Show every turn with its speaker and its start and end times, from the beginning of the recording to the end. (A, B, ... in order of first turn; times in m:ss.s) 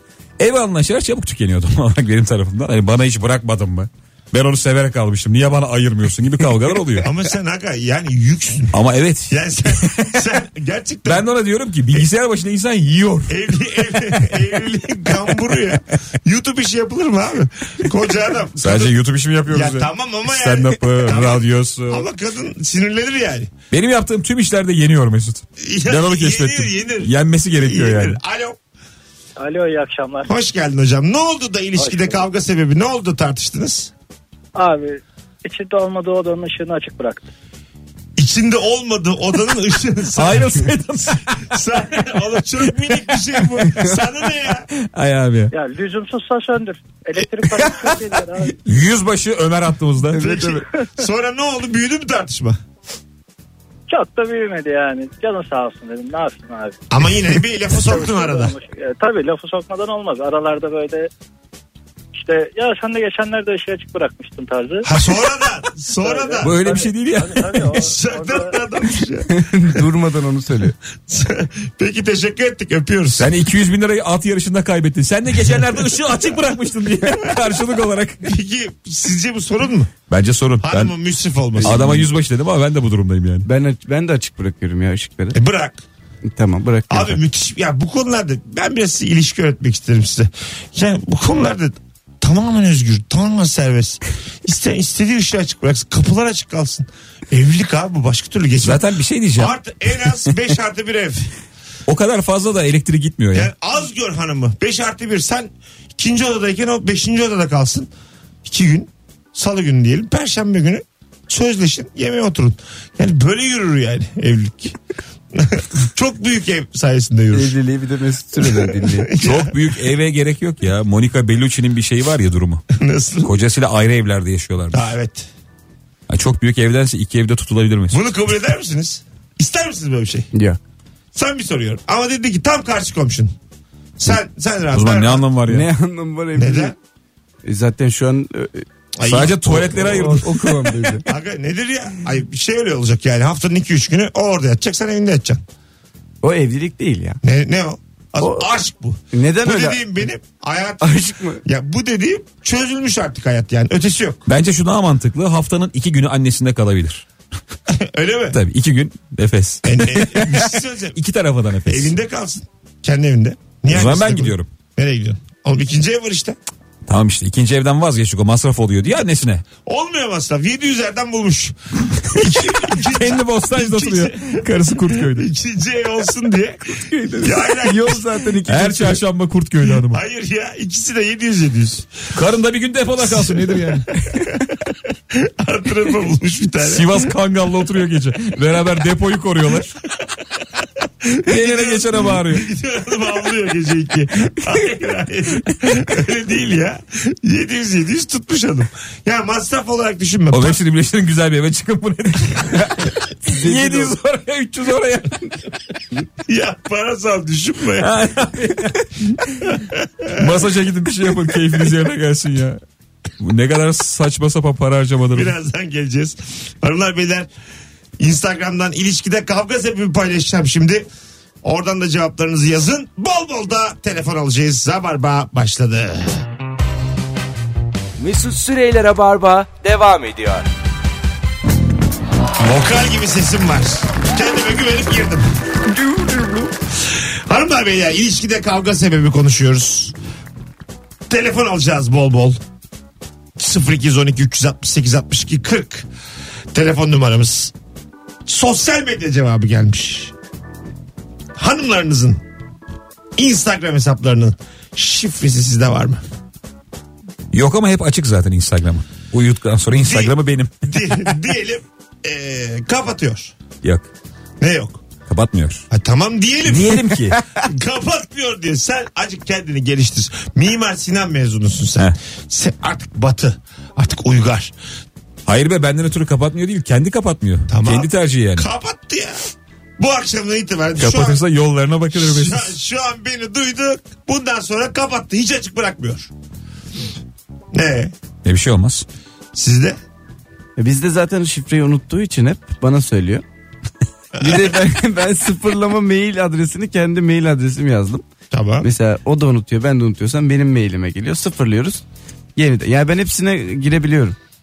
0:00.4-0:07.1 A
0:07.0-0:08.8 B
0:08.7-0:10.2 A
0:09.3-0:11.2 B
0:11.1-0:13.4 A
0:13.3-0:23.5 B
0:18.6-0:22.1 A
0:23.7-0:28.2 A
0:25.6-0:28.6 B
0:29.4-0:30.3 C
0:30.3-0:33.9 B
0:31.8-0:32.2 C
0:34.6-0:37.3 C
0:38.2-0:40.7 B
0:40.1-0:41.5 A
0:41.4-0:44.7 B
0:44.8-0:45.5 A
0:45.5-0:48.6 C
0:48.6-0:50.2 A
0:50.1-0:50.6 D
0:50.2-0:52.6 B
0:53.9-0:56.8 C
0:56.9-0:58.5 B
0:57.7-1:01.1 C
1:02.1-1:04.9 C
1:04.8-1:06.6 B
1:06.0-1:08.6 C
1:06.4-1:07.8 A
1:07.7-1:09.8 B
1:09.3-1:10.8 D
1:11.1-1:13.3 B
1:13.2-1:18.3 A
1:18.2-1:19.9 B
1:20.1-1:20.9 A
1:20.6-1:22.1 B
1:21.6-1:23.5 A
1:23.4-1:25.4 D
1:25.3-1:25.8 B
1:26.3-1:27.2 D
1:26.9-1:38.8 B
1:38.6-1:39.6 A
1:39.4-1:41.3 B
1:41.9-1:43.5 A
1:43.3-1:47.9 B
1:48.4-1:54.8 B
1:55.3-1:57.6 B
1:57.3-1:59.1 D
1:58.4-1:59.6 B
1:59.2-2:02.6 A
2:02.7-2:03.3 B
2:03.2-2:04.9 A
2:04.7-2:05.3 B
2:06.1-2:08.0 A
2:07.9-2:10.3 B
2:10.3-2:10.6 D
2:11.1-2:13.3 B
2:14.0-2:15.3 B
2:14.7-2:15.7 A
2:15.5-2:16.7 D
2:16.4-2:16.8 B
2:17.4-2:18.6 D
2:19.0-2:20.0 B
2:19.1-2:20.8 A
2:19.5-2:21.0 D
2:21.0-2:25.4 B
2:26.2-2:27.2 D
2:27.2-2:34.3 B
2:28.2-2:28.5 D
2:29.1-2:30.0 D
2:30.8-2:31.4 D
2:34.3-2:37.1 A
2:37.7-2:38.4 B
2:38.3-2:41.9 A
2:39.6-2:41.0 B
2:41.7-2:46.4 B
2:43.7-2:44.5 A
2:46.9-2:49.4 A
2:49.6-2:58.0 B
2:52.1-2:55.3 A
2:56.7-2:59.0 D
2:58.5-3:00.0 A
2:59.9-3:01.9 B
3:02.1-3:04.0 A
3:03.0-3:04.3 B
3:05.1-3:07.1 B
3:06.6-3:09.8 A
3:11.0-3:20.6 B
3:11.2-3:12.5 A
3:20.3-3:25.4 A
3:23.2-3:24.0 D
3:26.3-3:27.9 B
3:27.8-3:29.6 A
3:29.5-3:30.5 B
3:30.1-3:32.6 A
3:33.2-3:35.3 A
3:35.1-3:37.3 B
3:38.0-3:40.9 B
3:41.4-3:46.2 B
3:48.0-3:50.5 E
3:52.4-3:55.2 B
3:55.7-3:56.5 D
3:56.9-4:00.0 B
4:01.1-4:02.4 B
4:03.4-4:05.9 B
4:06.5-4:07.5 B
4:08.2-4:10.1 B
4:11.4-4:12.2 B
4:13.2-4:16.0 B
4:17.3-4:20.8 A
4:19.7-4:23.3 B
4:24.4-4:24.8 B
4:25.1-4:25.6 A
4:25.7-4:34.5 B
4:26.4-4:27.2 A
4:35.3-4:38.5 A
4:37.5-4:39.2 B
4:39.8-4:41.2 B
4:40.8-4:42.6 A
4:41.9-4:46.1 B
4:47.5-4:47.9 B
4:48.2-4:48.8 A
4:49.3-4:49.8 B
4:50.6-4:53.2 D
4:54.2-4:54.4 B
4:54.2-4:58.0 D
4:58.3-4:58.7 B
4:58.6-5:01.8 D
5:02.4-5:04.2 D